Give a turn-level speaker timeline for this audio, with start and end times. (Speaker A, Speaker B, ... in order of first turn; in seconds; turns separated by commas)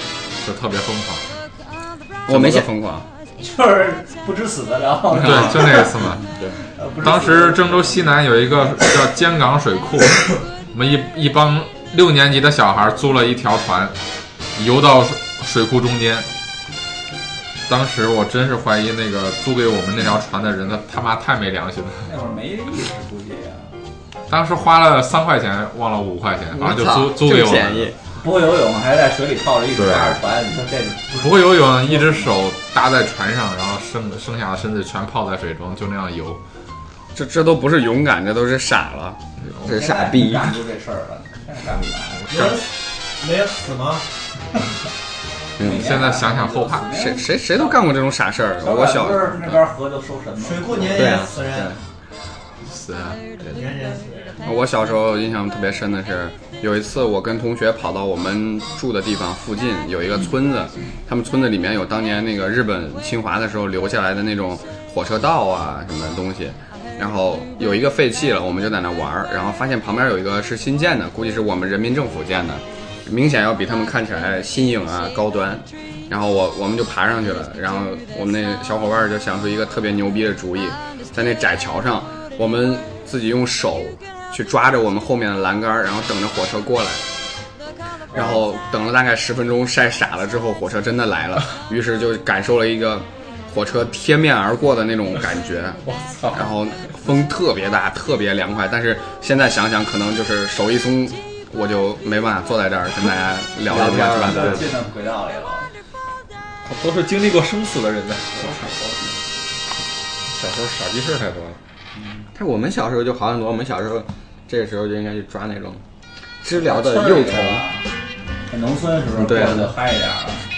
Speaker A: 0.4-1.2, Speaker B: 2.3-2.7, Speaker C: 2.3-3.1, Speaker D: 3.4-6.0, Speaker A: 5.1-6.4, Speaker D: 6.7-8.1, Speaker A: 7.0-13.9, Speaker A: 14.6-16.3, Speaker A: 17.7-22.1, Speaker D: 22.1-23.7, Speaker A: 24.3-27.9, Speaker B: 26.5-27.9, Speaker D: 28.2-32.3, Speaker A: 29.8-30.2, Speaker A: 31.2-36.4, Speaker C: 37.1-39.2, Speaker B: 39.6-40.6, Speaker D: 39.6-42.2, Speaker E: 42.3-44.0, Speaker D: 45.6-47.8, Speaker A: 45.6-46.9, Speaker C: 46.9-49.6, Speaker D: 48.6-51.2, Speaker E: 50.4-51.8, Speaker B: 50.9-51.8, Speaker A: 52.6-53.2, Speaker E: 53.4-54.4, Speaker C: 54.4-87.0, Speaker C: 88.1-95.8, Speaker A: 95.8-96.5, Speaker C: 96.3-104.6, Speaker B: 103.7-104.6, Speaker D: 104.2-105.7, Speaker A: 106.6-108.7, Speaker D: 108.3-109.1, Speaker A: 110.3-111.6, Speaker B: 112.3-115.8, Speaker B: 116.4-117.6, Speaker D: 116.5-117.9, Speaker D: 118.5-120.5, Speaker B: 119.2-119.7